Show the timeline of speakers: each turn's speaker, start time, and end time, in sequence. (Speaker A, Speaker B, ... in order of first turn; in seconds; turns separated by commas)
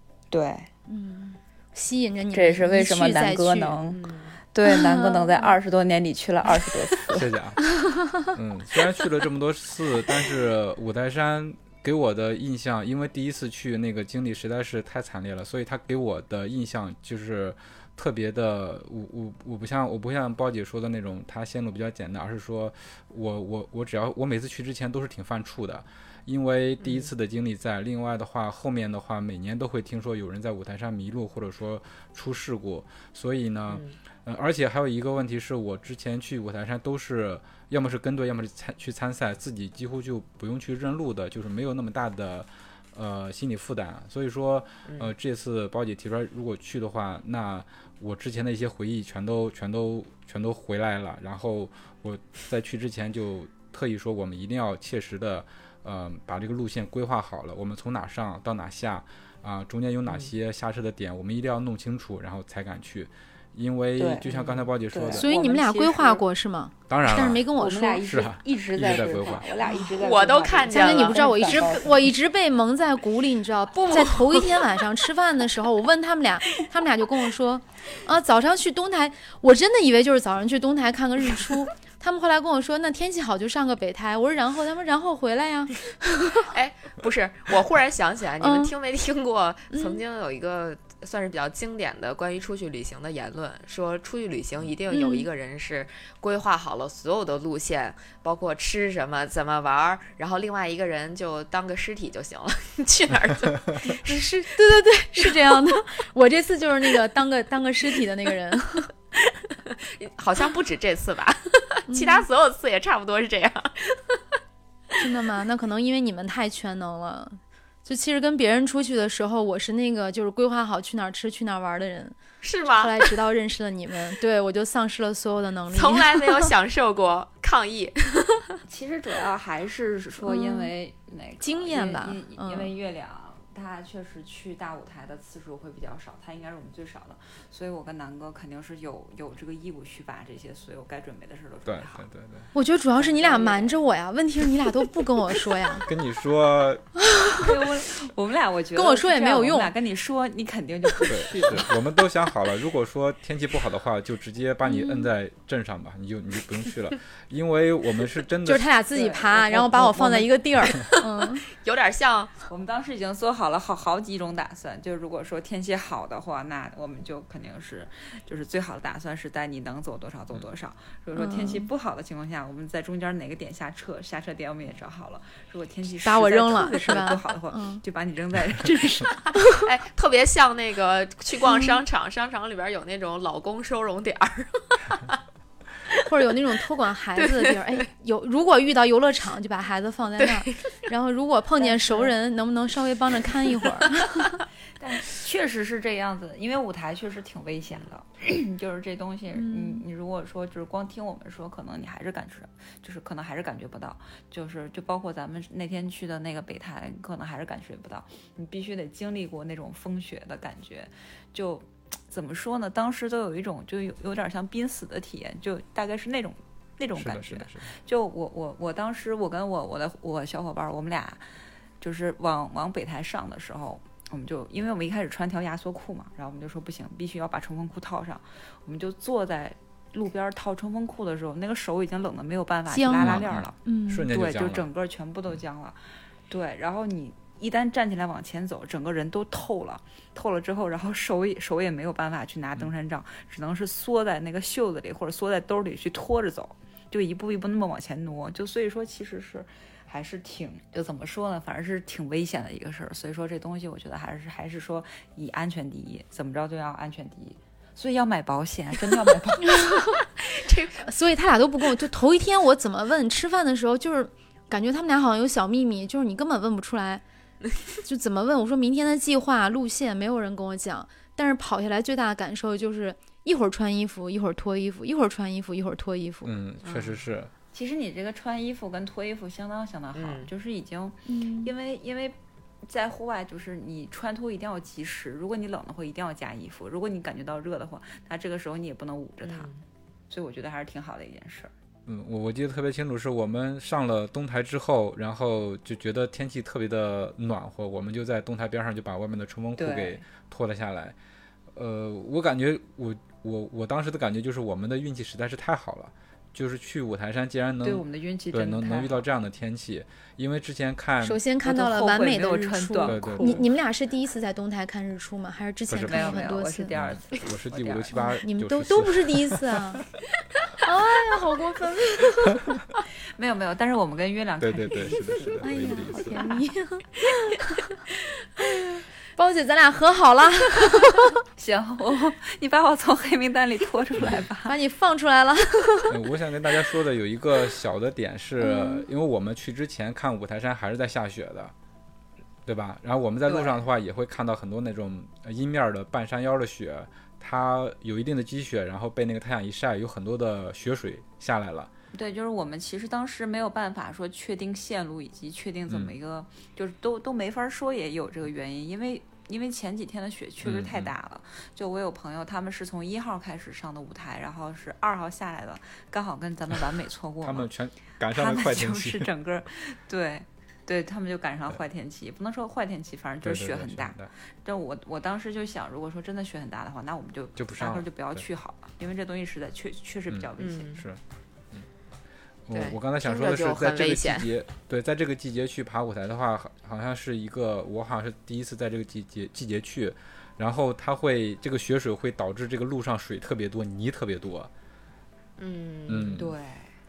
Speaker A: 0.3-0.7, Speaker B: 0.9-3.8, Speaker A: 2.3-4.0, Speaker C: 3.9-4.4, Speaker A: 4.5-7.3, Speaker B: 4.7-5.5, Speaker D: 7.1-7.7, Speaker B: 7.8-8.2, Speaker D: 8.2-65.3, Speaker C: 26.8-27.1, Speaker C: 33.7-33.9, Speaker C: 44.9-45.1, Speaker C: 60.1-60.3, Speaker A: 64.0-66.2, Speaker C: 64.3-64.7, Speaker B: 65.1-68.0, Speaker D: 66.9-67.5, Speaker A: 67.5-72.1, Speaker D: 68.0-69.5, Speaker C: 70.0-71.2, Speaker B: 70.7-85.8, Speaker C: 73.9-74.4, Speaker C: 86.3-104.4, Speaker B: 88.4-88.7, Speaker B: 89.7-90.0, Speaker B: 94.9-95.3, Speaker B: 103.8-108.9, Speaker C: 105.2-105.6, Speaker C: 109.6-114.2, Speaker B: 111.9-112.2, Speaker B: 115.0-126.5, Speaker C: 122.4-123.1, Speaker C: 125.7-128.6, Speaker A: 128.7-142.0, Speaker B: 130.2-130.7, Speaker B: 131.4-132.7, Speaker D: 141.7-142.5, Speaker B: 142.5-145.9, Speaker A: 142.9-143.8, Speaker D: 145.8-146.8, Speaker B: 147.0-147.5, Speaker A: 147.3-151.8, Speaker B: 148.7-149.7, Speaker D: 151.0-158.7, Speaker B: 154.6-155.1, Speaker B: 158.4-161.4, Speaker A: 158.9-160.3, Speaker C: 161.5-162.3, Speaker A: 162.5-179.3, Speaker B: 171.2-171.7, Speaker B: 176.0-177.8, Speaker C: 179.5-185.2, Speaker B: 181.5-181.7, Speaker B: 186.0-194.4, Speaker C: 187.2-187.8, Speaker C: 190.2-190.6, Speaker A: 191.6-192.1, Speaker A: 194.8-221.2, Speaker B: 199.3-199.8, Speaker D: 216.9-217.7, Speaker A: 221.8-233.6, Speaker B: 232.7-234.1, Speaker D: 232.9-234.7, Speaker A: 234.1-259.7, Speaker B: 259.5-259.9, Speaker C: 260.2-260.9, Speaker B: 260.8-267.0, Speaker B: 267.8-276.3, Speaker D: 276.2-277.3, Speaker C: 276.6-277.0, Speaker A: 277.5-289.5, Speaker C: 279.9-280.3, Speaker B: 281.1-281.5, Speaker C: 289.2-289.6, Speaker A: 290.1-291.5, Speaker D: 291.9-300.9, Speaker A: 299.6-300.0, Speaker D: 301.5-311.2, Speaker A: 307.6-309.0, Speaker B: 311.0-316.7, Speaker A: 311.4-313.4, Speaker D: 312.9-313.4, Speaker D: 315.7-319.4, Speaker A: 315.8-317.9, Speaker B: 317.9-319.8, Speaker B: 320.6-322.5, Speaker A: 323.1-326.4, Speaker D: 324.4-326.3, Speaker B: 325.4-327.6, Speaker B: 329.1-331.1, Speaker A: 331.3-334.6, Speaker B: 334.4-335.9, Speaker D: 335.9-341.5, Speaker B: 338.4-338.9, Speaker D: 342.4-351.7, Speaker A: 343.2-343.6, Speaker A: 351.9-367.5, Speaker D: 360.4-360.9, Speaker D: 367.2-369.1, Speaker A: 368.1-380.8, Speaker D: 373.2-374.1, Speaker D: 377.4-378.2, Speaker D: 380.1-381.0, Speaker C: 380.4-380.8, Speaker D: 382.5-394.5, Speaker C: 382.5-384.3, Speaker C: 395.4-396.2, Speaker D: 395.9-396.3, Speaker A: 396.1-396.7